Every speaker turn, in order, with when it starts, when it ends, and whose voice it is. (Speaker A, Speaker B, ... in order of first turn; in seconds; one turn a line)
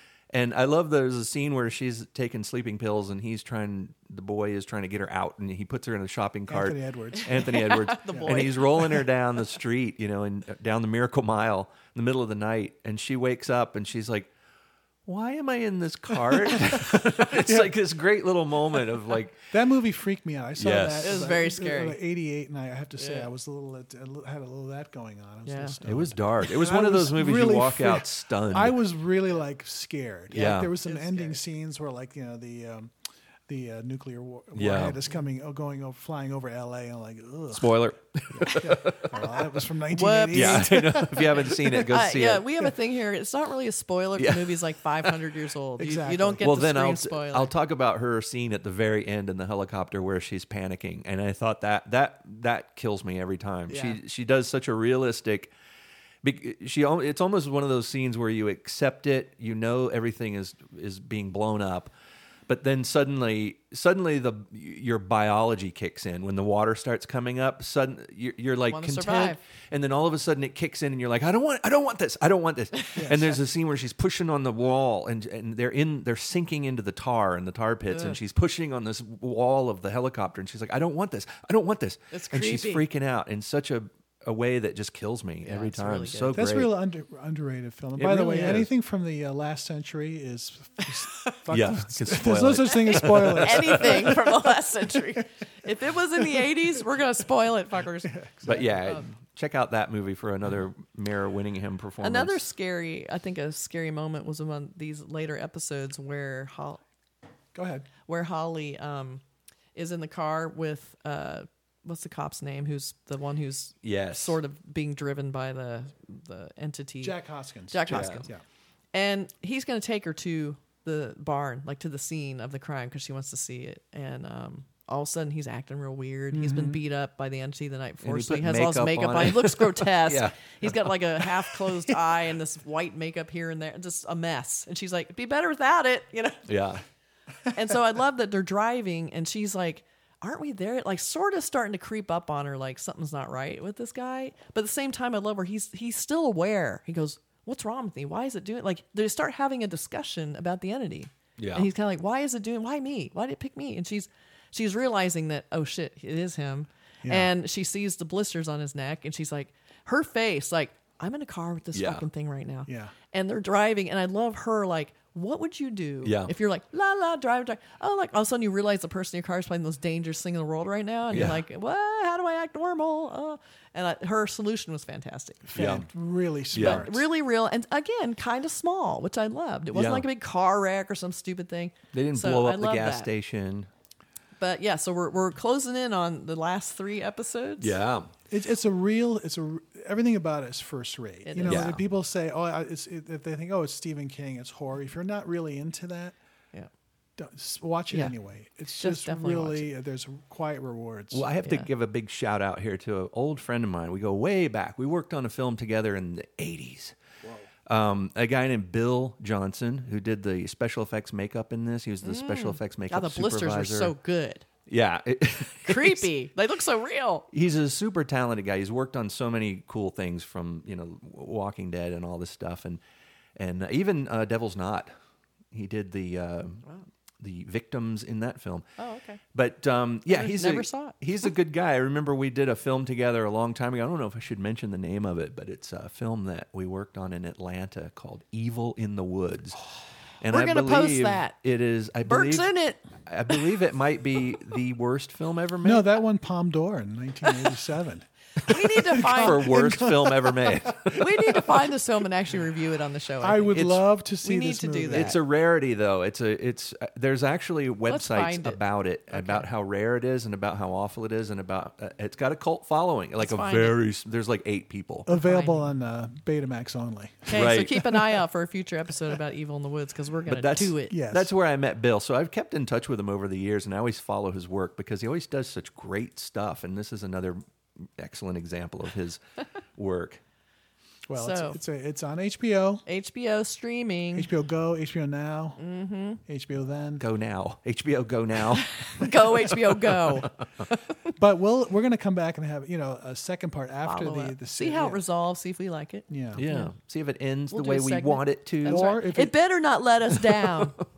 Speaker A: 0.3-14.3
Speaker B: 6.5-7.6
Speaker C: 7.2-9.1
Speaker B: 8.1-8.4
Speaker A: 15.1-19.4
Speaker B: 16.7-17.7
Speaker B: 19.5-32.9
Speaker A: 20.6-21.3
Speaker C: 21.0-22.0
Speaker C: 23.0-23.3
Speaker C: 25.5-25.8
Speaker A: 25.8-28.8
Speaker C: 30.3-31.4
Speaker A: 30.3-30.7
Speaker B: 33.5-41.8
Speaker A: 34.6-35.0
Speaker A: 37.5-39.2
Speaker C: 39.9-47.5
Speaker A: 40.3-42.5
Speaker A: 44.2-45.1
Speaker B: 45.8-46.5
Speaker A: 46.4-55.5
Speaker C: 53.7-54.0
Speaker A: 56.2-61.9
Speaker A: 62.5-86.7
Speaker C: 68.7-69.4
Speaker C: 72.8-73.2
Speaker B: 73.0-73.4
Speaker C: 77.9-78.2
Speaker C: 82.1-82.8
Speaker C: 85.4-86.4
Speaker B: 86.3-95.2
Speaker A: 88.0-88.7
Speaker A: 91.5-94.2
Speaker C: 92.7-98.2
Speaker B: 98.0-98.8
Speaker A: 98.5-102.5
Speaker C: 102.0-106.8
Speaker B: 107.5-107.9
Speaker C: 108.1-109.2
Speaker C: 109.8-117.2
Speaker A: 113.8-114.4
Speaker B: 117.0-118.4
Speaker C: 117.7-118.3
Speaker A: 117.9-118.2
Speaker C: 118.9-136.4
Speaker B: 126.3-126.8
Speaker A: 128.0-131.7
Speaker A: 136.5-136.8
Speaker C: 137.5-175.8
Speaker A: 151.4-151.7
Speaker B: 157.0-157.3
Speaker A: 161.7-162.1
Speaker B: 162.7-162.9
Speaker A: 166.0-166.3
Speaker A: 171.1-171.4
Speaker B: 175.5-177.1
Speaker A: 175.5-175.9
Speaker A: 176.5-176.9
Speaker C: 176.6-183.1
Speaker A: 179.7-180.1
Speaker A: 181.9-183.7
Speaker C: 184.4-187.8
Speaker A: 187.6-188.1
Speaker B: 188.3-196.2
Speaker C: 191.2-191.7
Speaker A: 191.4-191.8
Speaker B: 197.2-201.3
Speaker C: 198.8-199.7
Speaker A: 201.1-206.9
Speaker C: 201.4-201.7
Speaker B: 207.2-207.5
Speaker A: 207.7-213.9
Speaker C: 212.0-214.4
Speaker A: 214.7-216.1
Speaker C: 215.7-217.3
Speaker A: 217.3-222.8
Speaker A: 223.4-224.9
Speaker A: 225.5-226.6
Speaker A: 227.2-228.7
Speaker C: 228.8-229.2
Speaker A: 229.3-239.6
Speaker C: 230.1-231.0
Speaker A: 240.2-245.9
Speaker C: 240.3-241.4
Speaker C: 242.1-243.5
Speaker B: 245.6-251.4
Speaker C: 248.4-249.5
Speaker A: 249.0-251.4
Speaker C: 250.9-255.2
Speaker B: 253.2-255.2
Speaker A: 253.5-253.8
Speaker A: 254.9-265.1
Speaker C: 257.9-259.5
Speaker C: 263.2-263.8
Speaker B: 265.1-267.7
Speaker C: 265.1-265.6
Speaker C: 267.3-270.9
Speaker A: 267.3-268.0
Speaker A: 270.3-279.2
Speaker B: 270.9-271.3
Speaker A: 279.8-280.2
Speaker B: 281.1-282.8
Speaker C: 281.2-281.6
Speaker C: 282.9-284.3
Speaker B: 284.1-285.6
Speaker C: 285.6-286.2
Speaker B: 286.3-287.0
Speaker A: 287.0-288.7
Speaker C: 288.6-290.9
Speaker B: 291.2-295.0
Speaker C: 293.9-296.7
Speaker B: 296.1-296.4
Speaker A: 296.4-299.3
Speaker C: 297.5-300.8
Speaker B: 298.6-299.3
Speaker A: 300.2-300.8